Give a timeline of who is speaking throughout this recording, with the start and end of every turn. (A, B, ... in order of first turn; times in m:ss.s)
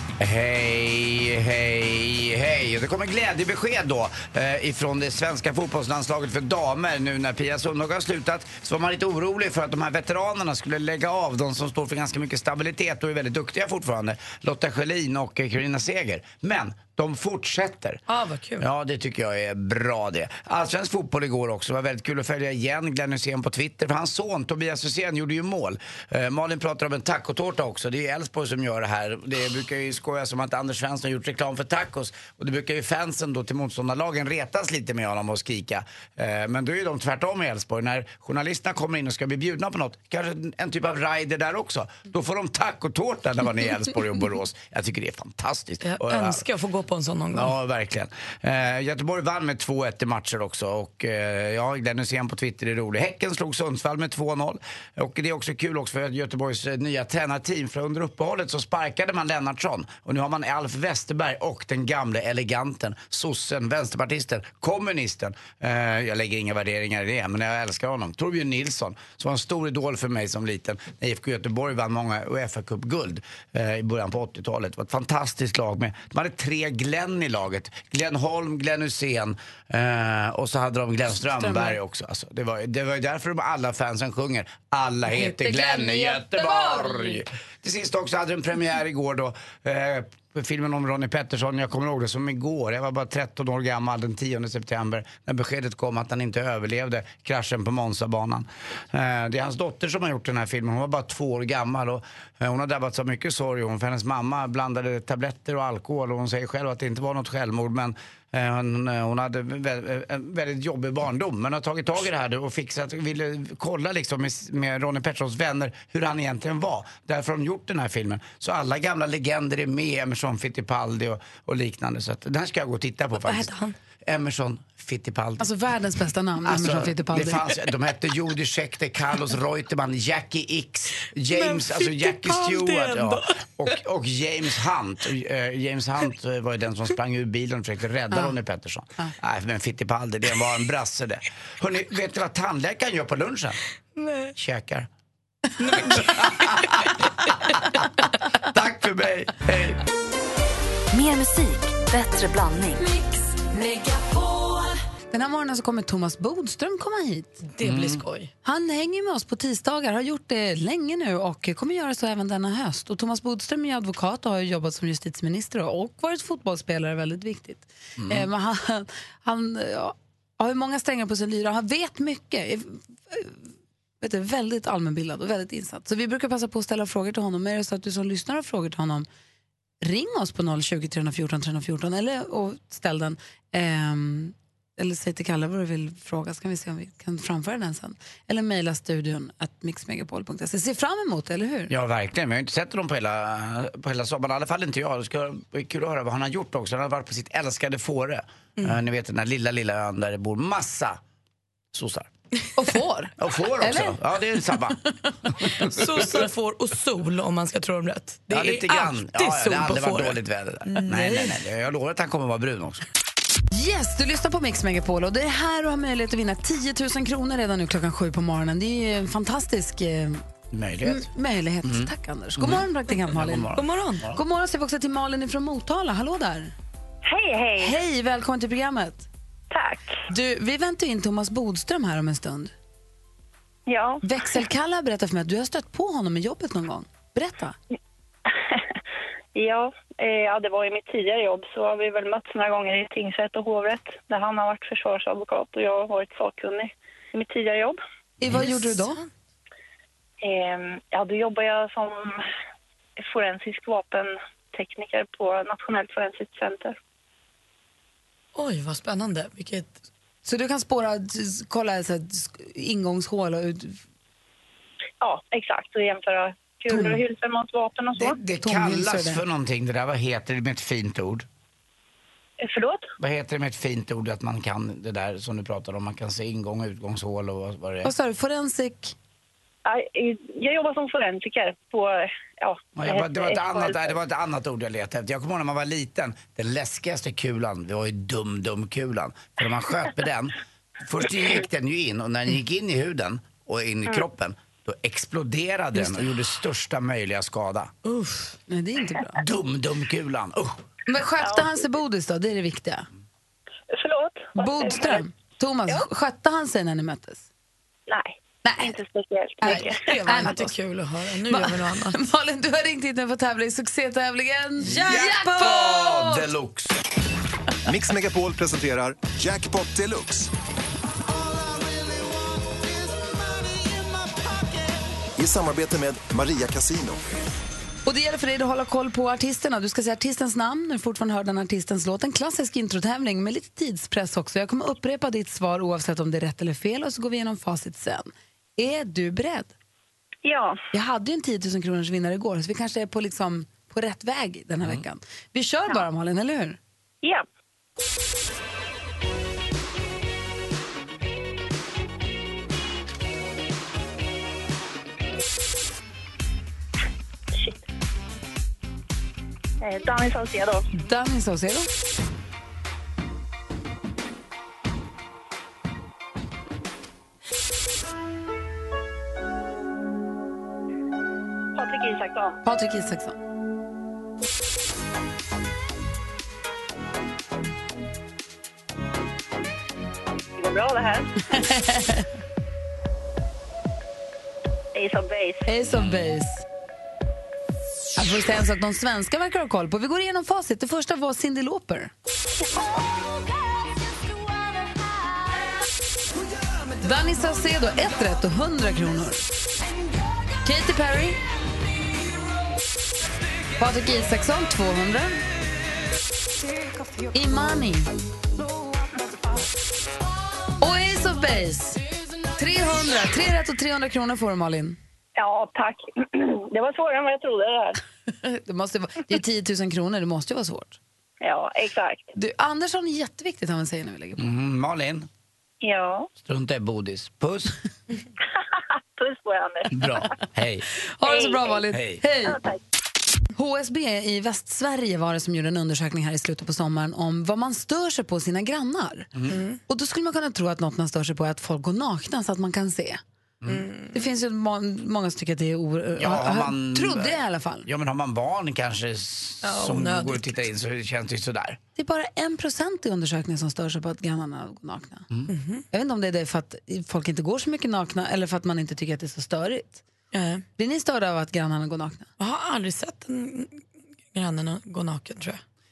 0:00.2-0:18.0 A
0:18.1-0:18.7 B
0:18.6-0:46.4 A
0:45.8-0:47.5 B
0:47.3-2:03.5 A
1:21.2-1:21.8 C
1:25.1-1:27.2 C
2:03.2-2:03.8 B
2:04.0-2:05.5 A
2:05.4-2:07.5 C
2:06.4-2:23.6 A
2:11.3-2:13.4 B
2:24.0-2:24.3 B
2:24.4-2:24.9 A
2:25.6-2:26.7 B
2:25.8-2:27.0 A
2:28.4-2:29.8 A
2:30.9-2:32.9 D
2:35.1-2:37.4 C
2:37.4-2:38.3 B
2:37.6-2:38.0 A
2:38.4-2:53.4 C
2:48.0-2:48.3 A
2:54.0-2:59.1 C
2:59.8-3:11.7 C
3:11.7-3:21.0 A
3:21.7-3:22.1 A
3:22.6-3:25.1 C
3:23.2-3:24.8 A
3:25.6-3:30.2 B
3:28.3-3:32.9 A
3:30.7-3:31.3 B
3:33.5-3:40.2 C
3:40.5-3:41.1 A
3:40.8-3:43.5 C
3:41.6-3:44.2 A
3:43.6-3:44.0 B
3:44.1-3:46.5 C
3:47.0-3:47.8 E
3:47.6-3:49.1 C
3:49.5-3:50.0 E
3:50.1-3:52.5 C
3:53.7-3:54.0 E
3:54.0-3:57.6 C
3:59.4-4:07.8 E
4:08.2-4:09.0 C
4:08.3-4:09.1 B
4:10.2-4:12.2 E
4:13.0-4:16.8 E
4:18.4-4:19.8 B
4:20.2-4:23.8 C
4:25.0-4:28.2 E
4:26.7-4:27.0 C
4:28.0-4:31.3 A
4:28.4-4:29.2 C
4:32.4-4:32.9 E
4:33.0-4:37.9 A
4:37.8-4:39.0 C
4:39.6-4:43.9 E
4:42.8-4:57.7 A
4:57.8-4:58.4 B
4:58.5-4:59.2 C
4:59.2-5:00.6 A
5:00.9-5:02.9 C
5:01.2-5:01.5 E
5:03.7-5:05.0 E
5:04.4-5:07.3 C
5:07.9-5:10.0 E
5:08.4-5:08.8 C
5:09.4-5:10.6 C
5:09.4-5:12.0 B
5:11.3-5:16.3 C
5:14.6-5:16.8 A
5:17.7-5:20.3 F
5:21.1-5:27.1 F
5:27.9-5:39.5 C
5:40.2-5:40.6 E
5:40.7-5:46.6 C
5:59.6-6:00.7 E
6:00.7-6:01.7 C
6:11.6-6:12.4 E
6:12.4-6:13.2 C
6:20.4-6:21.1 E
6:21.3-6:22.1 C
6:24.7-6:25.4 E
6:25.5-6:26.4 C
6:28.0-6:31.9 C
6:36.8-6:39.2 C
6:40.4-6:41.2 C
6:43.6-6:45.2 C
6:47.1-6:47.9 C
6:50.6-6:51.8 C
6:52.4-6:54.8 C
6:55.2-6:57.8 E
6:58.2-7:00.8 C
7:01.2-7:02.1 E
7:02.2-7:04.3 C
7:04.2-7:05.1 A
7:05.6-7:06.1 E
7:06.2-7:07.6 A
7:09.0-7:10.0 E
7:09.7-7:10.6 A
7:11.0-7:12.4 C
7:11.0-7:11.6 E
7:11.7-7:12.0 A
7:12.2-7:12.6 E
7:13.4-7:19.1 C
7:19.3-7:19.6 B
7:19.7-7:23.0 C
7:23.5-7:24.0 B
7:23.9-7:27.7 C
7:26.0-7:31.6 A
7:29.4-7:30.4 B
7:31.8-7:35.1 C
7:35.3-7:35.6 B
7:35.7-7:39.8 C
7:40.1-7:40.4 B
7:40.6-7:42.1 C
7:42.2-7:43.6 B
7:44.1-7:45.4 B